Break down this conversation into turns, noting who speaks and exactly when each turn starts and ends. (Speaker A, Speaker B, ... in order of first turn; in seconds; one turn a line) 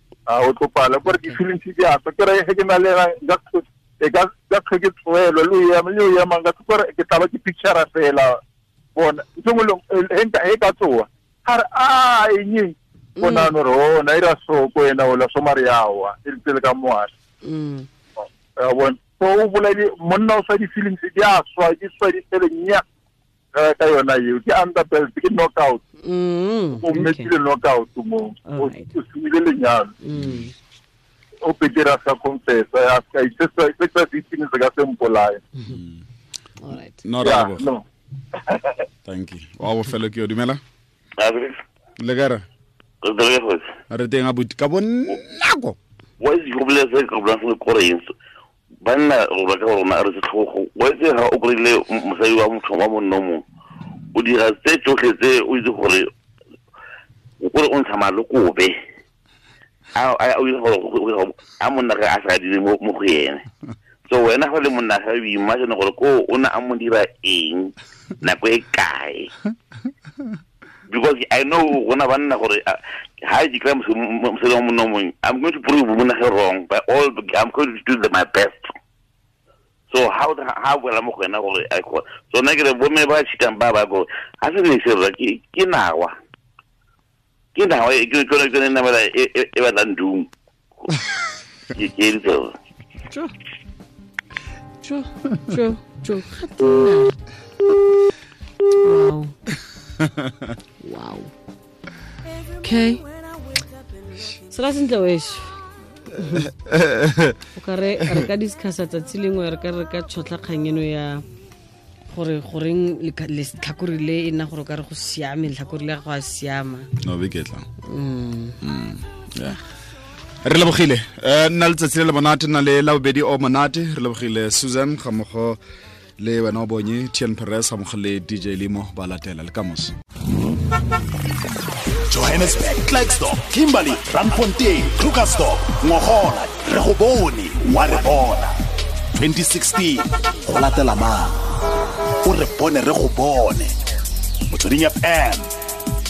Speaker A: 0.3-8.4
Speaker B: 1.1-1.4
Speaker A: 8.9-17.1
Speaker B: 13.2-13.5
Speaker B: 17.4-17.9
Speaker A: 18.6-22.8
Speaker A: 23.5-25.8
Speaker B: 26.0-27.3
Speaker A: 26.8-29.9
Speaker B: 28.5-28.9
Speaker B: 30.0-30.5
Speaker A: 31.4-35.4
Speaker C: 35.7-36.0
Speaker B: 36.6-37.0
Speaker C: 37.0-37.7
Speaker A: 37.2-37.8
Speaker A: 38.5-38.8
Speaker C: 39.0-40.6
Speaker D: 41.2-41.6
Speaker C: 42.0-42.4
Speaker D: 43.0-43.7
Speaker C: 43.9-45.8
Speaker D: 46.2-48.0
Speaker D: 48.8-53.4
Speaker D: 54.1-56.1
Speaker D: 57.4-58.7
Speaker D: 59.9-63.4
Speaker D: 64.1-69.3
Speaker D: 70.9-78.7
Speaker D: 79.9-86.1
Speaker D: 87.5-90.3
Speaker D: 91.7-92.5
Speaker B: 94.8-97.1
Speaker B: 98.8-99.3
Speaker C: 100.0-100.5
Speaker B: 100.8-101.3
Speaker B: 102.6-103.0
Speaker B: 104.5-105.6
Speaker B: 106.1-106.5
Speaker C: 106.4-107.4
Speaker B: 107.5-111.2
Speaker B: 112.1-116.9
Speaker C: 117.0-117.7
Speaker B: 117.8-118.6
Speaker C: 118.6-119.6
Speaker C: 120.4-125.6
Speaker C: 126.2-129.9
Speaker E: 132.1-138.5
Speaker E: 139.1-141.4
Speaker E: 142.2-143.7
Speaker E: 144.5-145.5